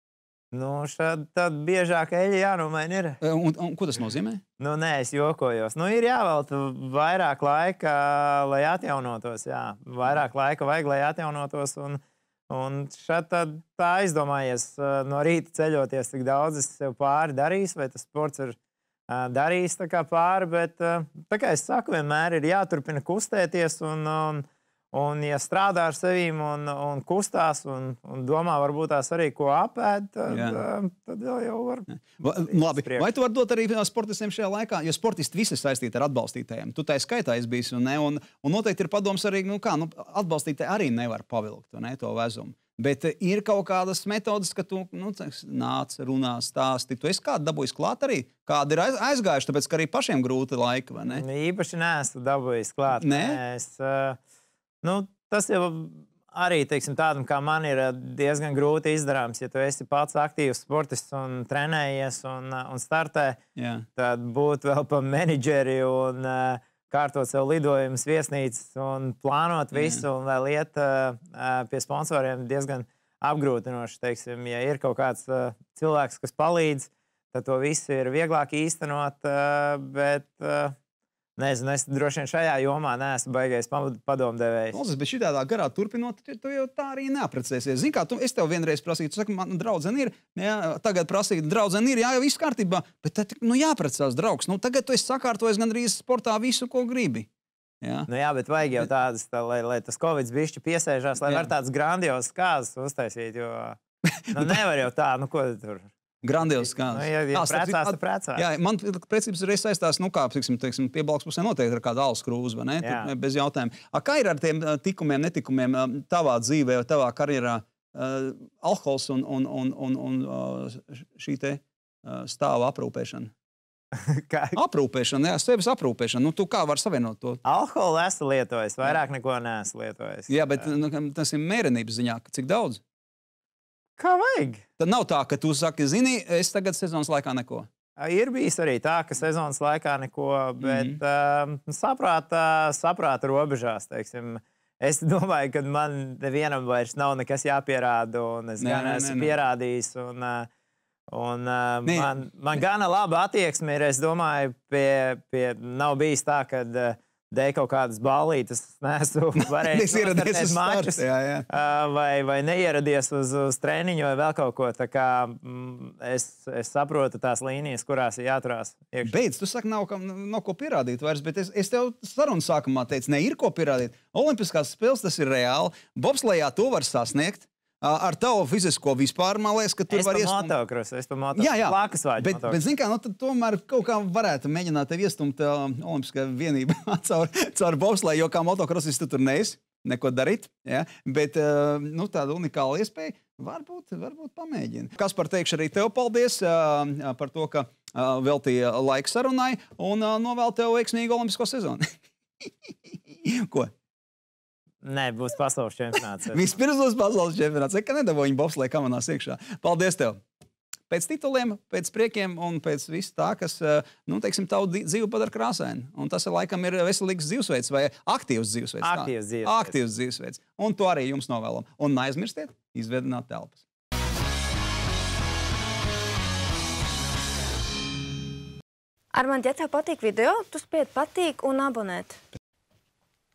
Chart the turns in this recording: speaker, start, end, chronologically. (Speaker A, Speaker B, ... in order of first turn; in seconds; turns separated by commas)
Speaker A: 0.5-3.2, Speaker B: 3.2-4.4, Speaker A: 4.6-18.6, Speaker A: 19.1-33.1, Speaker B: 30.3-30.6, Speaker B: 31.9-51.2, Speaker A: 51.1-54.2, Speaker B: 53.0-53.4, Speaker A: 54.8-63.4, Speaker B: 63.6-63.9, Speaker A: 64.0-80.8, Speaker B: 69.7-70.0, Speaker A: 81.4-84.8, Speaker B: 84.7-97.3, Speaker B: 97.8-98.1, Speaker A: 98.1-103.8, Speaker B: 101.2-101.5, Speaker B: 104.1-104.6, Speaker A: 104.3-105.9, Speaker B: 106.2-123.3, Speaker A: 106.7-108.5, Speaker A: 112.8-113.1, Speaker A: 124.0-124.6, Speaker B: 124.5-127.4, Speaker A: 127.5-130.7, Speaker B: 130.3-132.8, Speaker A: 134.0-134.6, Speaker B: 134.8-137.7, Speaker A: 138.0-150.5, Speaker B: 140.6-141.0, Speaker B: 148.6-149.3, Speaker A: 151.1-169.2, Speaker B: 151.8-152.1, Speaker B: 159.4-161.5, Speaker B: 169.0-180.5, Speaker A: 179.9-182.6, Speaker B: 181.4-203.7, Speaker A: 204.8-206.5, Speaker B: 206.3-210.2, Speaker B: 210.9-223.6, Speaker A: 218.8-219.8, Speaker C: 229.1-232.2